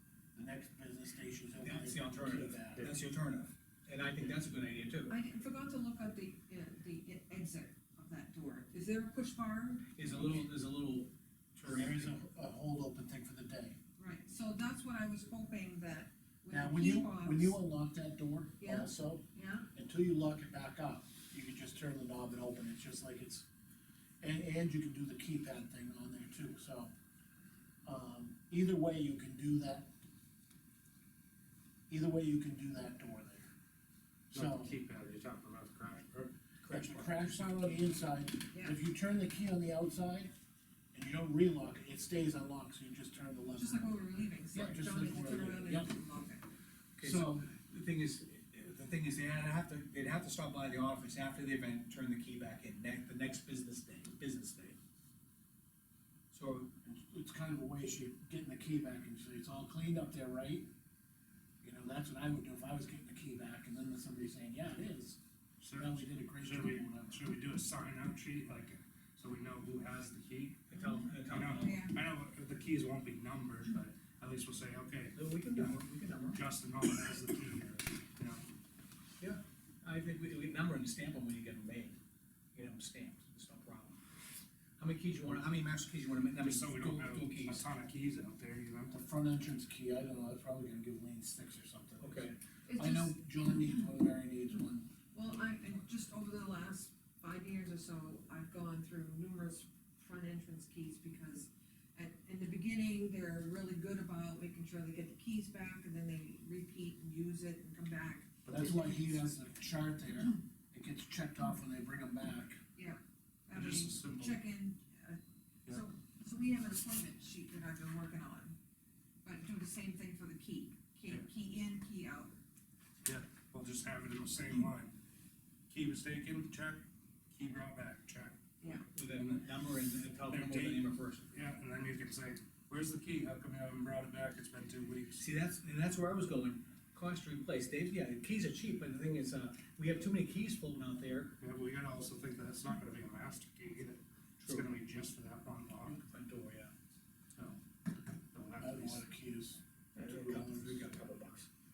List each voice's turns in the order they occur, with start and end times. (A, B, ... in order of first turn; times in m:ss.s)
0:00.3-0:02.8 A
0:01.6-0:05.2 B
0:05.1-0:09.9 C
0:10.0-0:12.1 B
0:11.6-0:13.8 A
0:14.0-0:17.6 C
0:16.5-0:23.4 A
0:18.6-0:19.7 C
0:24.2-0:26.9 A
0:27.8-0:29.9 A
0:31.9-0:33.5 A
0:34.3-0:37.5 D
0:34.3-0:34.7 A
0:36.6-0:37.0 B
0:36.7-0:40.3 A
0:38.5-0:38.8 C
0:40.9-0:45.9 A
0:43.6-0:46.4 C
0:47.0-0:54.8 B
0:47.0-0:47.5 A
0:56.3-0:56.7 B
0:56.8-1:00.7 A
1:01.6-1:05.2 A
1:05.6-1:10.7 D
1:05.8-1:07.2 A
1:10.7-1:11.8 B
1:10.7-1:12.0 C
1:11.3-1:15.8 D
1:15.1-1:16.4 B
1:16.3-1:18.4 D
1:19.2-1:22.0 B
1:22.5-1:24.0 B
1:24.8-1:27.6 B
1:26.4-1:29.0 D
1:28.9-1:34.9 A
1:32.0-1:32.4 B
1:32.7-1:33.2 C
1:35.1-1:49.1 C
1:48.4-1:52.6 A
1:52.8-1:58.6 C
1:53.5-1:54.4 D
1:59.2-2:02.3 C
2:03.0-2:04.9 D
2:05.7-2:08.4 D
2:08.6-2:08.8 C
2:08.9-2:11.3 B
2:09.1-2:09.6 D
2:10.2-2:15.2 D
2:15.2-2:21.4 B
2:21.4-2:26.0 D
2:25.9-2:26.7 B
2:28.3-2:29.0 D
2:28.6-2:30.9 A
2:29.9-2:31.5 B